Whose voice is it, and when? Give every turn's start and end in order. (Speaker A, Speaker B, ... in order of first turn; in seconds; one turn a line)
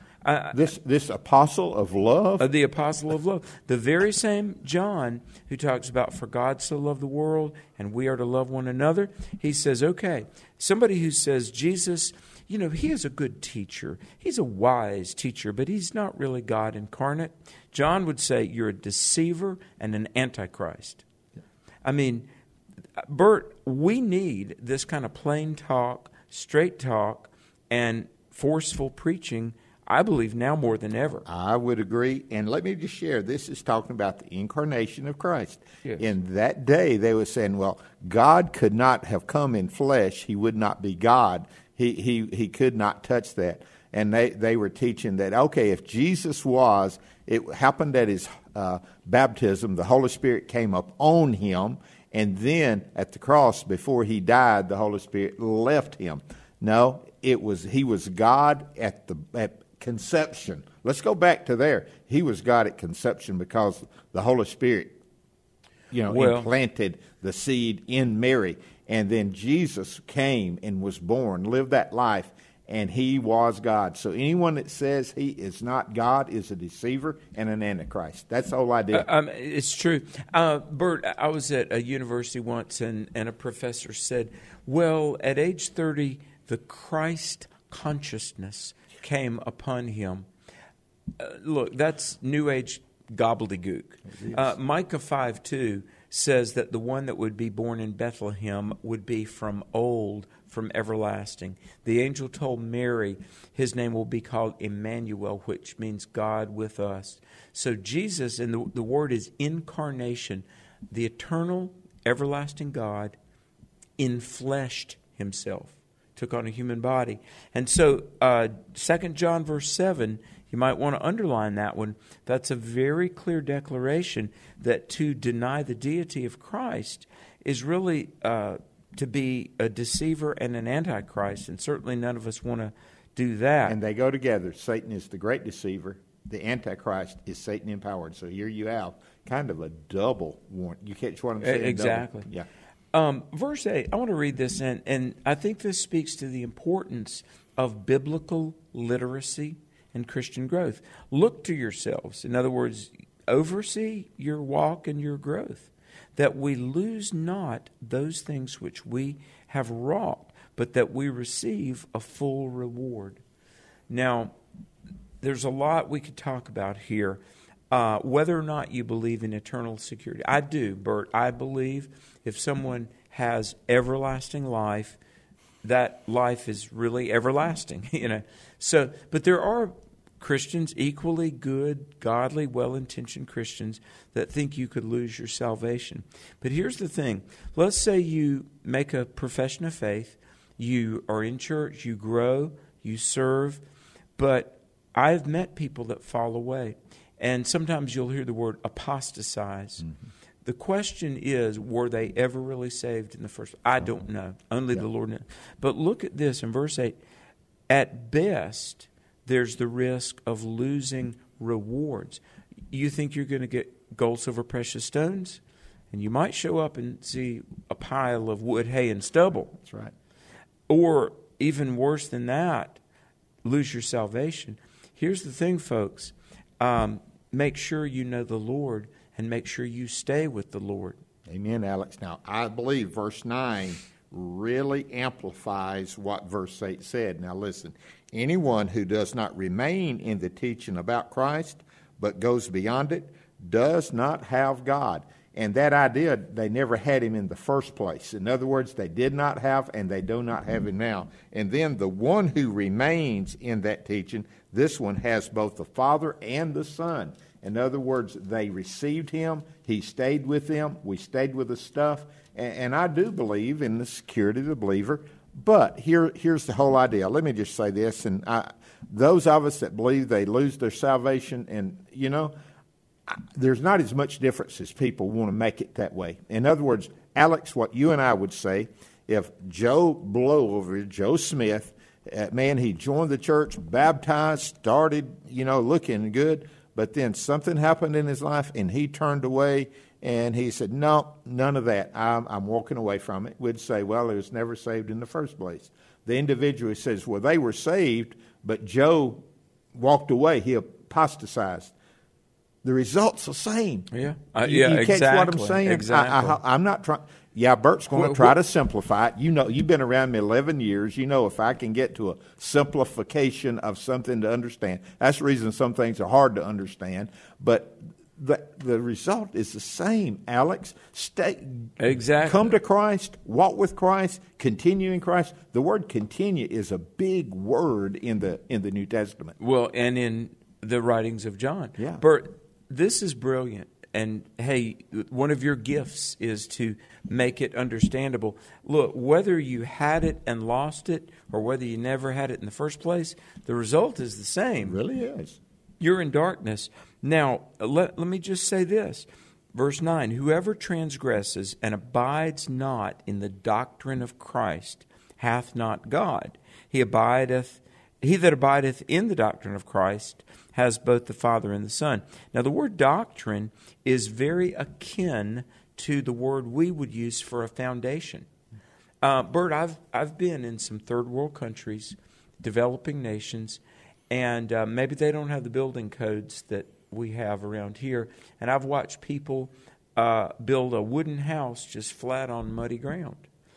Speaker A: 0.2-0.7
Speaker B: 0.5-2.5
Speaker A: 2.4-21.0
Speaker A: 21.9-22.3
Speaker A: 23.0-31.3
Speaker B: 31.3-65.0
Speaker B: 65.9-79.1
Speaker A: 66.1-66.5
Speaker A: 78.9-90.3
Speaker A: 91.2-113.2
Speaker B: 94.1-94.6
Speaker A: 114.0-133.8
Speaker B: 133.7-142.5
Speaker A: 141.4-142.3
Speaker A: 142.9-163.2
Speaker A: 163.9-164.3
Speaker A: 165.2-175.0
Speaker A: 175.6-193.6
Speaker A: 194.2-199.9
Speaker A: 200.4-207.0
Speaker A: 207.7-219.6
Speaker B: 219.5-219.9
Speaker A: 220.7-222.8
Speaker A: 223.4-231.0
Speaker B: 231.3-272.3
Speaker B: 273.1-301.7
Speaker B: 302.6-303.9
Speaker A: 303.9-306.4
Speaker B: 304.4-329.4
Speaker A: 307.9-308.4
Speaker A: 321.8-322.5
Speaker A: 329.4-344.8
Speaker B: 331.8-332.0
Speaker B: 344.6-345.4
Speaker A: 345.8-368.3
Speaker A: 369.0-383.2